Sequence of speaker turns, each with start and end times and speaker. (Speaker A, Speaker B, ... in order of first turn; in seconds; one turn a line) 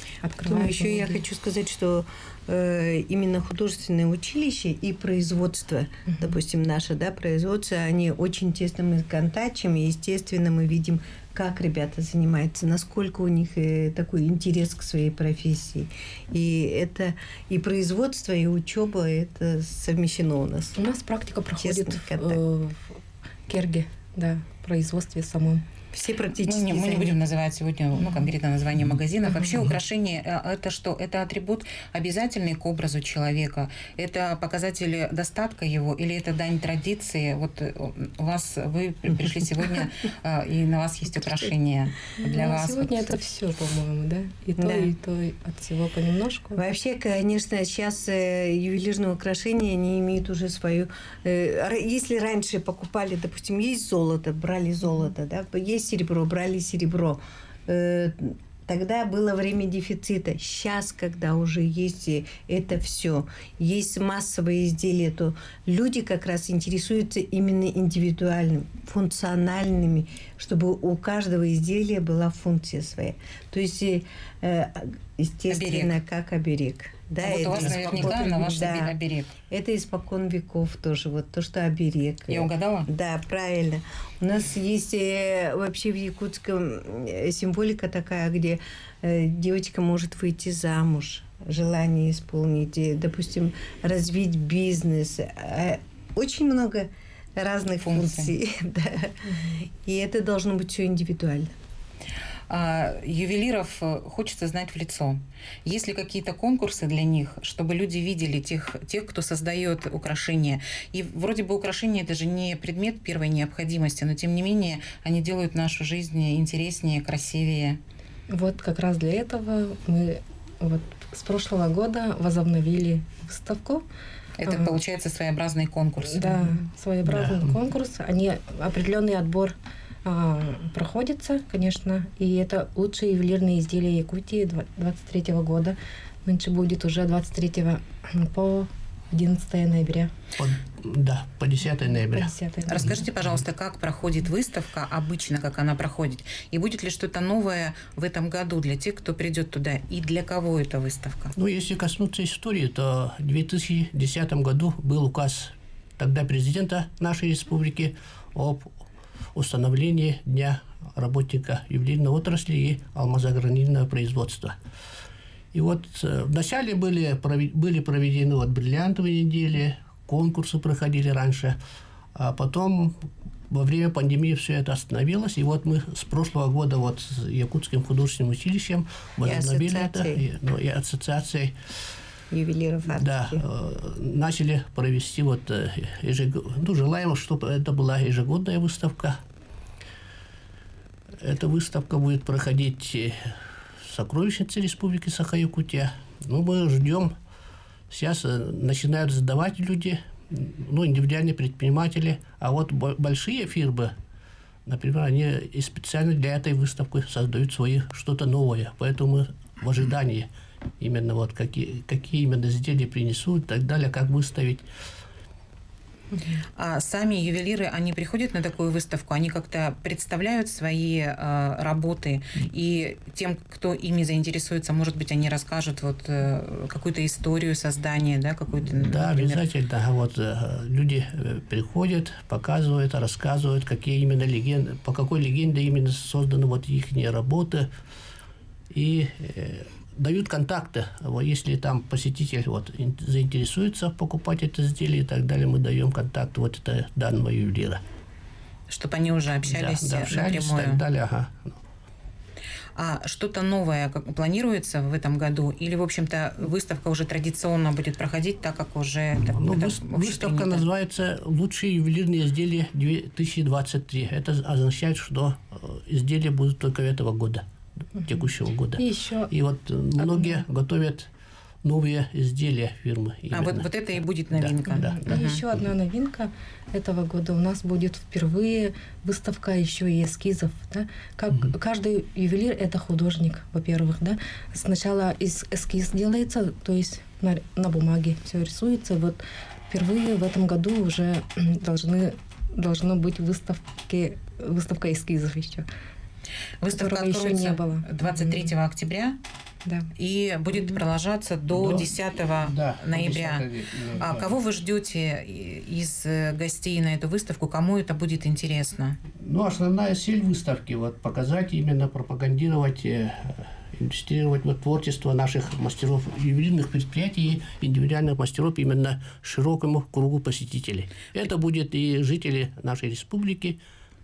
Speaker A: 0.2-1.2
Speaker B: 0.4-20.8
Speaker A: 6.1-6.3
Speaker A: 20.8-25.6
Speaker B: 21.6-22.4
Speaker B: 25.9-27.1
Speaker C: 26.4-43.1
Speaker A: 42.2-46.6
Speaker B: 44.6-44.9
Speaker B: 46.5-79.0
Speaker C: 75.5-76.0
Speaker C: 77.2-79.3
Speaker B: 79.5-99.2
Speaker C: 82.3-82.9
Speaker C: 97.8-98.3
Speaker A: 99.3-99.6
Speaker B: 99.8-101.5
Speaker C: 102.5-117.8
Speaker A: 118.3-123.8
Speaker C: 124.4-126.6
Speaker A: 124.4-124.7
Speaker A: 126.1-140.1
Speaker D: 127.1-127.5
Speaker D: 140.4-142.3
Speaker A: 142.1-143.0
Speaker C: 142.7-151.3
Speaker D: 151.3-158.8
Speaker D: 159.3-164.6
Speaker D: 165.5-171.6
Speaker D: 172.1-181.6
Speaker B: 179.2-180.2
Speaker B: 182.3-183.4
Speaker D: 182.9-189.2
Speaker D: 191.2-197.1
Speaker D: 197.9-203.9
Speaker D: 204.7-210.3
Speaker D: 210.8-214.7
Speaker C: 216.6-229.4
Speaker D: 228.7-237.7
Speaker D: 238.7-247.8
Speaker C: 248.7-250.8
Speaker D: 249.5-251.6
Speaker C: 252.7-260.6
Speaker D: 259.4-271.1
Speaker A: 268.8-269.3
Speaker A: 270.0-270.4
Speaker D: 271.6-273.7
Speaker C: 273.3-275.4
Speaker D: 274.3-275.2
Speaker A: 274.7-295.7
Speaker C: 296.6-299.2
Speaker A: 296.7-298.5
Speaker C: 299.9-303.4
Speaker D: 301.5-304.3
Speaker C: 304.0-309.0
Speaker D: 309.2-323.6